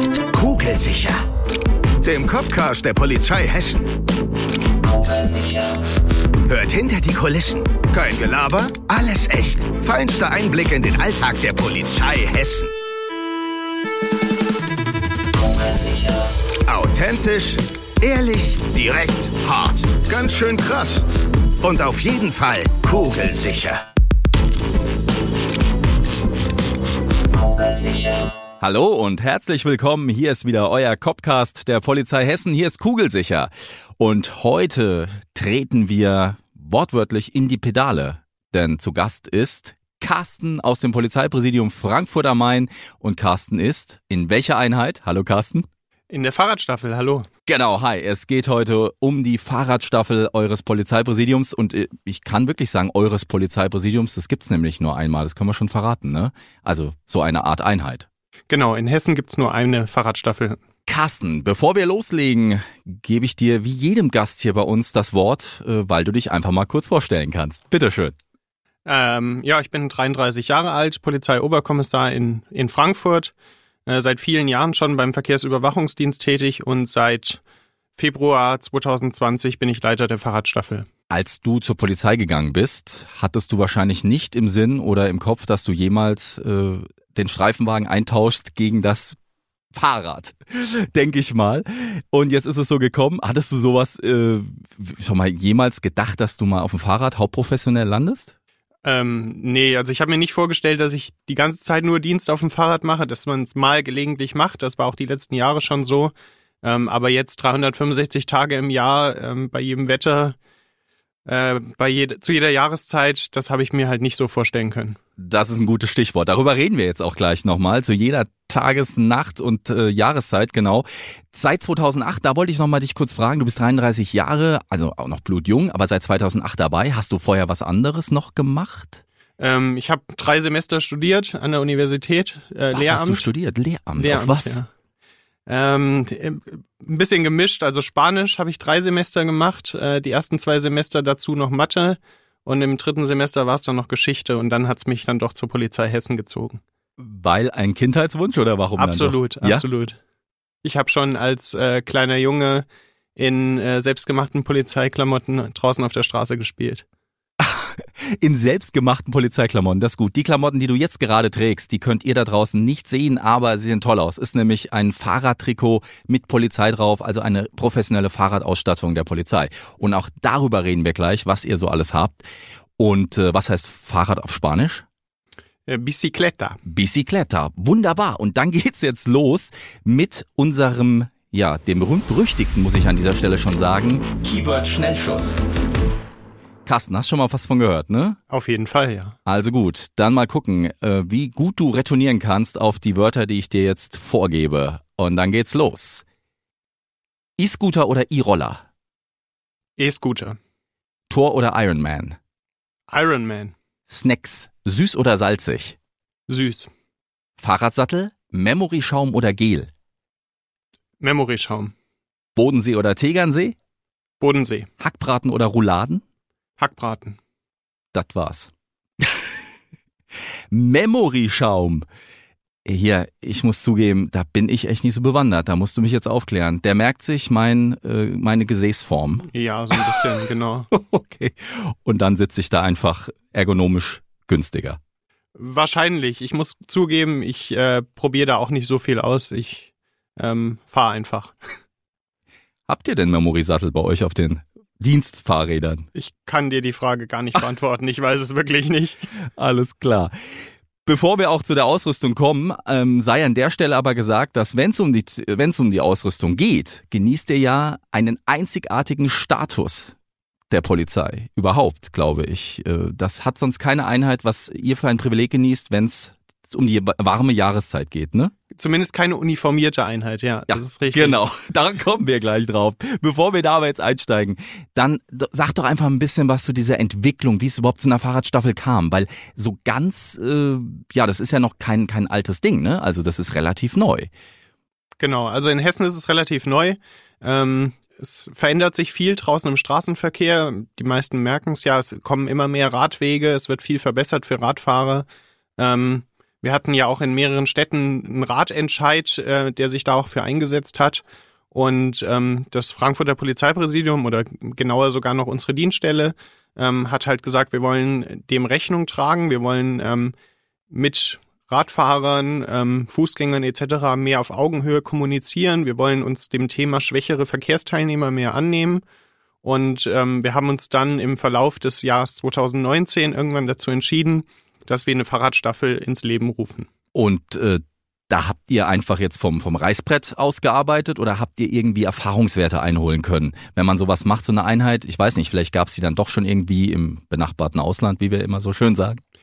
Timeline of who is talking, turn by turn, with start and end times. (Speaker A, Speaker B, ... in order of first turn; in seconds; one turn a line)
Speaker A: 0.3-1.2
Speaker A: 2.0-3.9
Speaker A: 6.5-12.7
Speaker A: 16.7-21.1
Speaker A: 21.6-23.8
Speaker B: 28.6-45.7
Speaker C: 46.1-47.3
Speaker B: 47.5-58.1
Speaker C: 58.5-60.6
Speaker B: 60.9-68.2
Speaker C: 68.9-73.3
Speaker C: 73.9-77.4
Speaker C: 78.0-80.9
Speaker B: 81.1-89.2
Speaker B: 89.7-98.3
Speaker C: 98.8-110.4
Speaker C: 111.3-115.0
Speaker B: 115.2-129.0
Speaker C: 129.4-133.3
Speaker B: 132.7-134.6
Speaker C: 134.0-134.7
Speaker C: 135.5-146.6
Speaker B: 147.0-149.7
Speaker C: 148.8-150.0
Speaker C: 150.6-156.8
Speaker B: 157.4-172.2
Speaker B: 172.8-174.8
Speaker C: 175.7-176.6
Speaker B: 176.7-185.4
Speaker B: 186.7-188.2
Speaker C: 188.3-189.2
Speaker B: 189.3-196.1
Speaker B: 197.4-198.6
Speaker C: 199.8-200.4
Speaker B: 201.1-202.2
Speaker C: 202.9-203.5
Speaker B: 203.9-205.8
Speaker C: 206.3-206.7
Speaker B: 207.4-209.7
Speaker C: 211.0-211.7
Speaker B: 212.3-213.6
Speaker C: 214.2-214.7
Speaker B: 214.8-216.0
Speaker C: 216.6-217.2
Speaker B: 217.9-219.3
Speaker B: 220.5-221.9
Speaker B: 222.7-230.0
Speaker C: 229.3-230.7
Speaker B: 230.7-234.8
Speaker C: 235.4-241.3
Speaker B: 242.7-245.9
Speaker C: 245.9-249.1
Speaker B: 249.4-250.1
Speaker B: 250.9-259.9
Speaker B: 260.5-268.3
Speaker C: 268.6-271.2
Speaker B: 270.5-284.1
Speaker C: 285.0-295.1
Speaker C: 295.6-310.1
Speaker C: 310.7-318.8
Speaker C: 319.4-326.7
Speaker B: 326.9-339.0